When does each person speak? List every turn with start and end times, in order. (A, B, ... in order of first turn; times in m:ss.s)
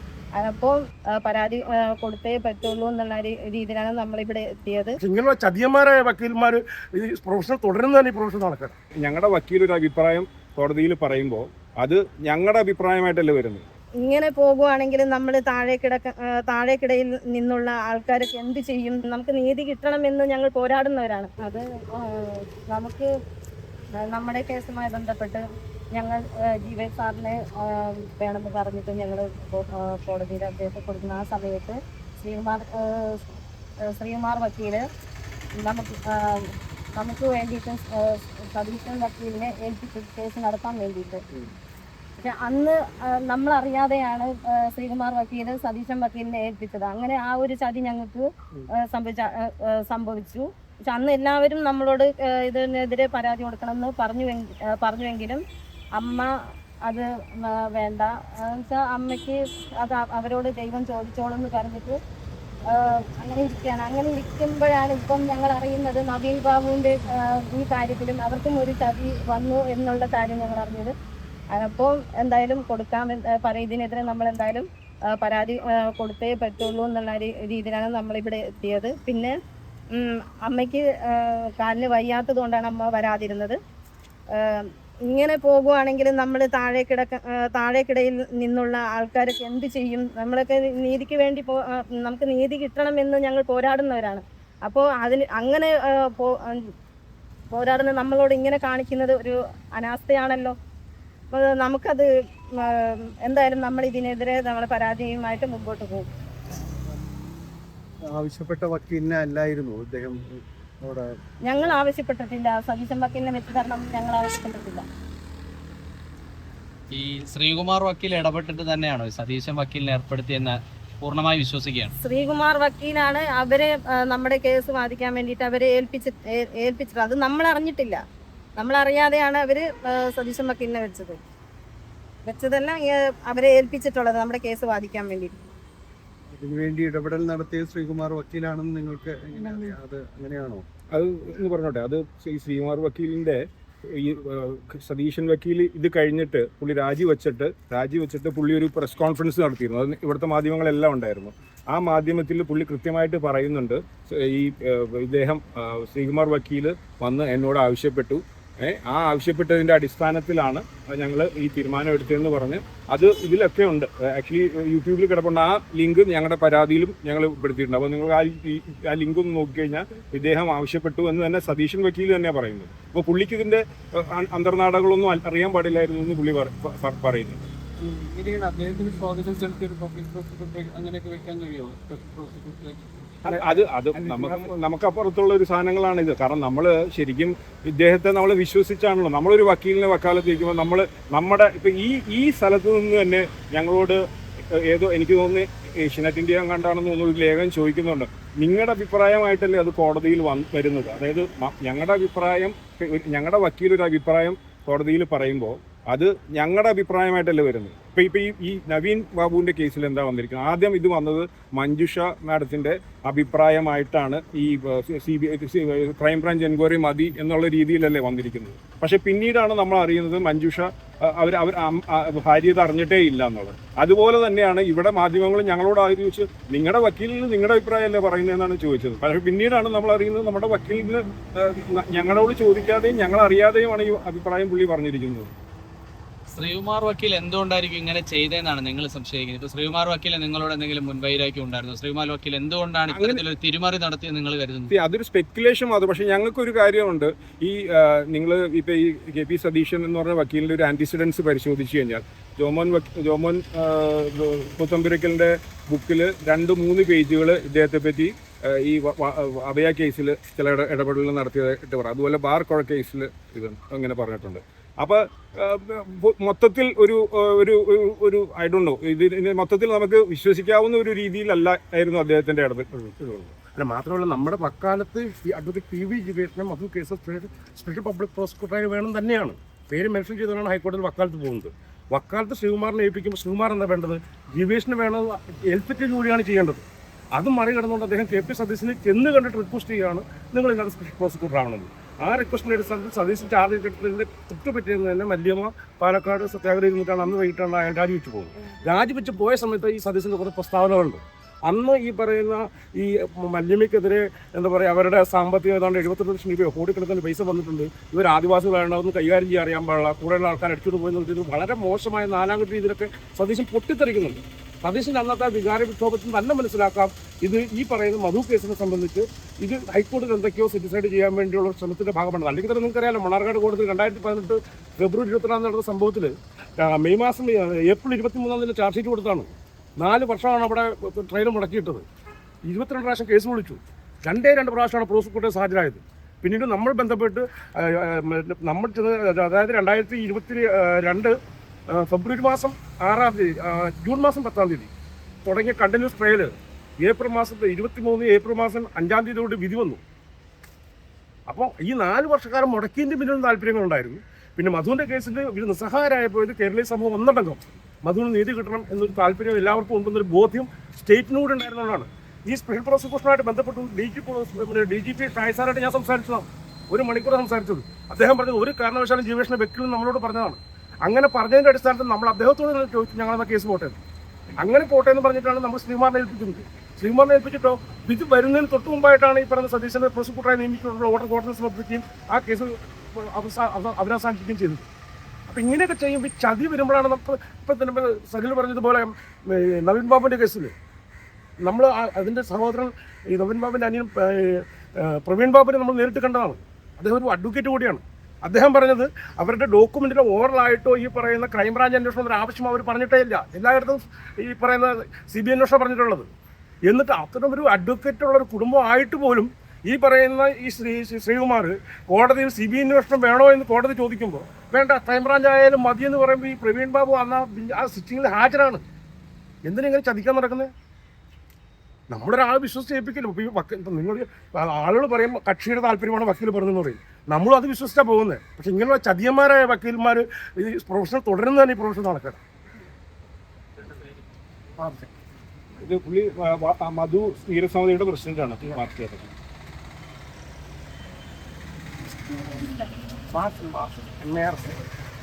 0:00.4-0:05.0 A
0:05.0-0:08.8 B
0:09.0-0:13.7 C
0:14.0-0:23.1 A
0:24.0-0:34.8 A
0:35.6-0:41.2 A
0:42.2-0:55.4 A
0:56.0-0:56.3 A
0:56.8-1:02.0 A
1:02.7-1:11.0 A
1:11.5-1:19.4 A
1:19.9-1:23.6 A
1:24.3-1:36.7 A
1:37.5-1:40.6 A
1:41.3-1:42.1 A
1:42.6-1:46.1 A
1:48.1-1:51.8 D
1:51.5-1:54.9 A
1:56.9-2:01.9 E
2:02.0-2:08.0 A
2:08.6-2:11.2 A
2:12.2-2:15.5 A
2:16.3-2:20.6 D
2:20.9-2:57.5 C
2:57.8-3:03.5 F
3:03.2-3:55.3 C
3:56.4-4:04.7 E
4:02.9-4:03.2 C
4:04.7-4:32.7 C
4:32.7-4:46.6 B
4:47.2-5:31.8 B
5:32.4-5:41.1 B
5:41.7-5:44.7 B
5:45.3-5:49.8 B
5:51.3-6:13.8 B
6:14.4-6:24.7 B
6:25.3-6:30.5 B
6:31.4-6:46.1 B
6:46.7-6:58.6 B
6:59.4-7:00.5 B
7:01.9-7:12.2 B
7:15.6-7:19.1 C
7:23.1-7:24.5 B